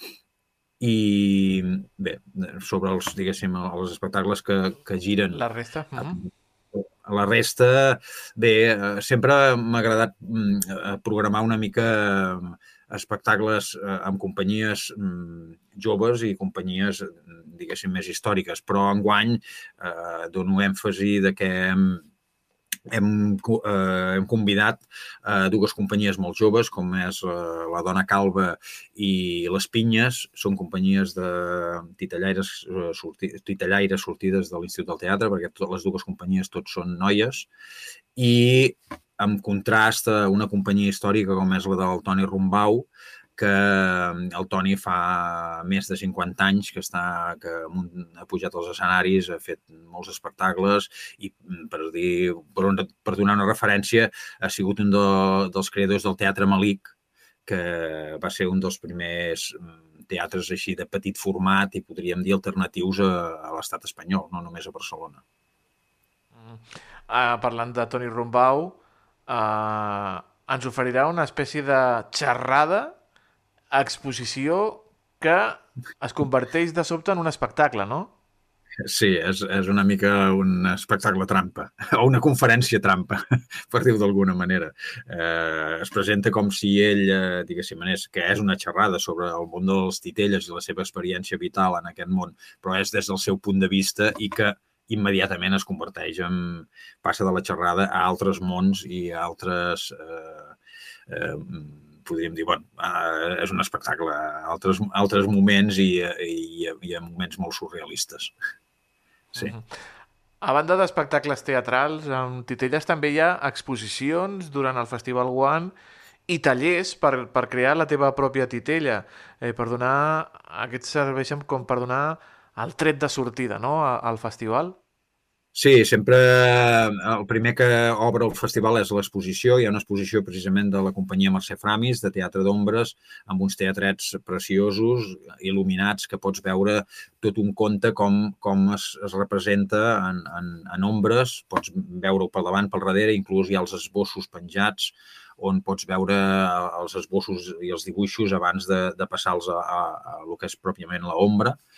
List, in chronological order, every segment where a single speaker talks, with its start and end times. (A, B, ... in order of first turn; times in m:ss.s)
0:00.8-0:22.0 A
0:05.3-0:06.2 B
0:22.9-0:37.5 A
0:38.2-0:56.9 A
0:57.4-1:05.2 A
1:06.4-1:12.9 B
1:13.7-1:18.1 B
1:18.8-1:40.6 A
1:41.1-1:48.3 A
1:49.4-1:49.6 B
1:50.4-1:55.7 B
1:56.3-2:04.8 B
2:05.5-2:31.6 A